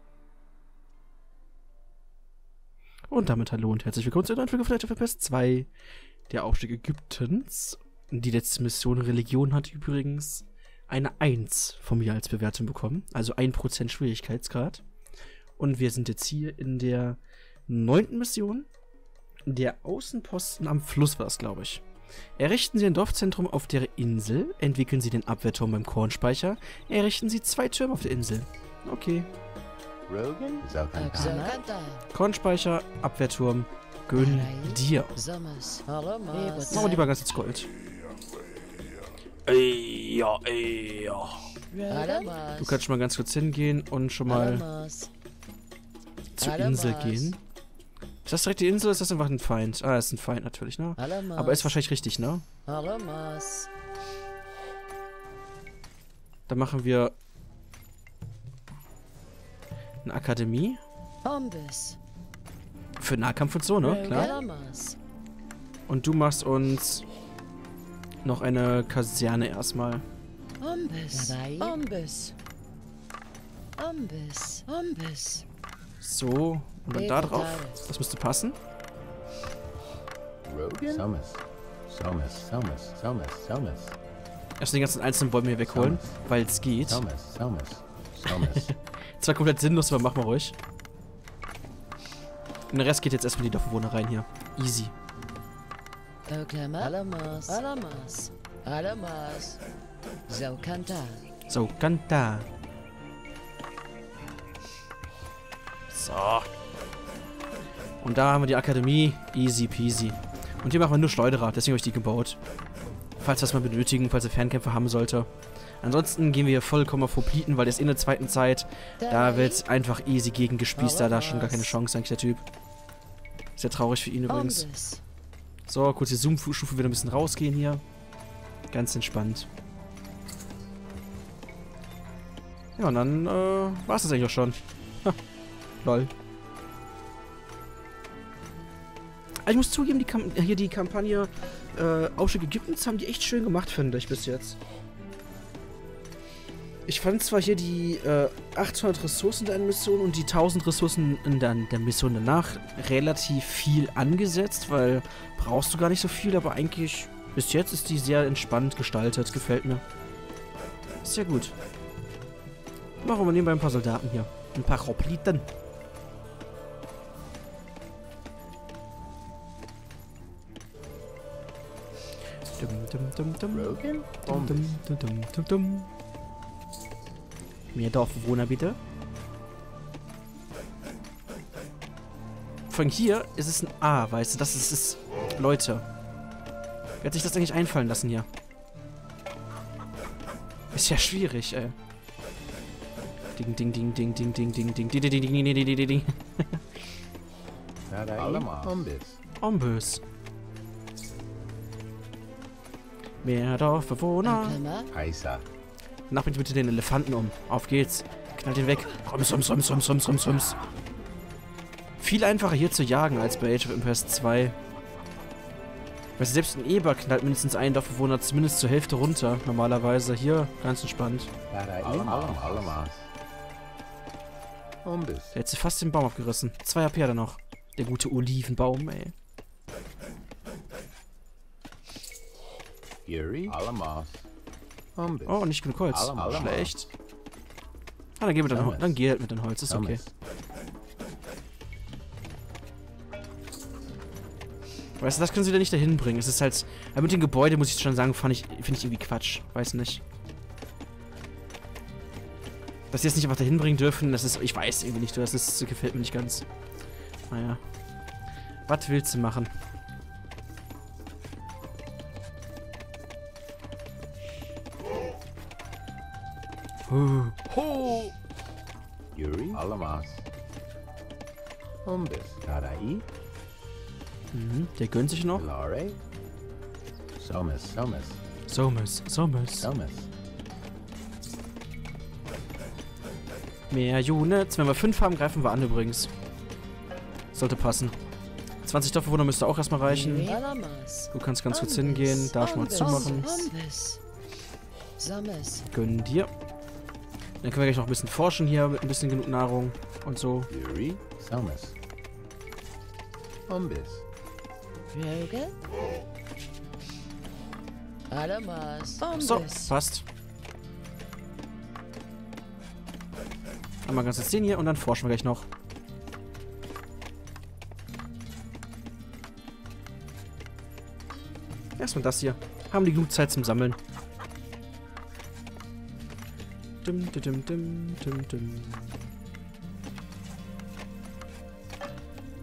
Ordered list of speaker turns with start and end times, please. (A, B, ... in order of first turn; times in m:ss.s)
0:03.1-0:05.7 A
0:06.3-0:14.8 A
0:15.6-0:18.7 A
0:19.5-0:21.8 A
0:22.4-0:29.3 A
0:30.1-0:31.6 B
0:31.0-0:32.1 C
0:32.1-0:35.1 A
0:34.1-0:37.1 C
0:36.7-0:37.7 A
0:39.5-0:44.7 A
0:41.7-0:42.8 C
0:44.3-0:45.1 C
0:46.4-0:47.4 A
0:46.4-0:47.4 C
0:48.2-0:52.5 A
0:51.0-0:51.8 C
0:52.7-0:53.7 C
0:56.5-0:57.2 A
1:00.0-1:00.8 A
1:01.2-1:02.0 C
1:03.0-1:04.4 A
1:03.8-1:05.0 C
1:05.9-1:07.0 A
1:08.2-1:10.0 A
1:10.6-1:12.3 C
1:13.8-1:15.4 C
1:16.0-1:18.6 A
1:16.9-1:17.8 C
1:20.4-1:24.0 B
1:24.6-1:27.0 A
1:25.6-1:26.2 B
1:26.8-1:28.7 B
1:28.3-1:30.6 A
1:32.7-1:34.9 A
1:36.3-1:39.6 C
1:40.3-1:41.2 C
1:41.5-1:42.5 A
1:45.9-1:46.5 A
1:48.0-1:52.4 A
1:53.2-1:55.3 A
1:55.8-2:02.4 A
1:59.0-1:59.6 C
2:00.8-2:01.7 C
2:03.6-2:04.7 A
2:04.3-2:05.0 C
2:05.7-2:07.8 A
2:08.7-2:09.5 A
2:12.8-2:15.2 A
2:15.8-2:16.1 A
2:19.4-2:24.6 A
2:26.9-2:39.8 A
2:41.0-2:41.6 A
2:43.0-2:45.5 A
2:52.6-2:55.9 A
2:53.5-2:54.8 B
2:57.7-2:58.8 A
3:02.7-3:05.9 A
3:07.0-3:08.3 A
3:10.7-3:11.8 A
3:13.4-3:16.6 A
3:17.9-3:19.2 B
3:19.4-3:20.0 A
3:23.2-3:24.6 A
3:24.2-3:24.9 C
3:24.9-3:25.5 B
3:26.1-3:30.6 A
3:32.0-3:34.6 A
3:36.2-3:41.3 A
3:41.5-3:43.1 B
3:41.8-3:42.8 A
3:44.8-3:45.4 B
3:45.3-3:49.1 A
3:53.1-3:54.3 B
3:55.0-3:56.9 B
3:55.3-3:56.9 A
3:58.2-4:00.0 A
3:58.5-3:59.0 B
3:59.6-4:00.1 B
4:05.0-4:10.0 A
4:12.9-4:16.5 A
4:17.3-4:17.6 A
4:18.7-4:19.5 A
4:26.9-4:28.1 A
4:29.1-4:30.3 B
4:31.8-4:33.0 B
4:34.3-4:35.5 A
4:35.3-4:36.0 B
4:37.2-4:38.2 B
4:38.5-4:39.7 A
4:39.6-4:40.1 B
4:43.7-4:46.1 A
4:47.3-4:48.0 A
4:48.6-4:50.4 A
4:49.8-4:54.0 C
4:51.1-4:53.5 A
4:55.0-4:55.6 C
4:55.7-4:56.3 A
4:57.4-5:00.5 A
5:00.5-5:01.8 B
5:03.5-5:04.0 B
5:04.9-5:05.5 C
5:08.1-5:09.7 C
5:09.1-5:10.1 A
5:13.8-5:15.5 A
5:21.8-5:23.8 A
5:26.8-5:29.0 A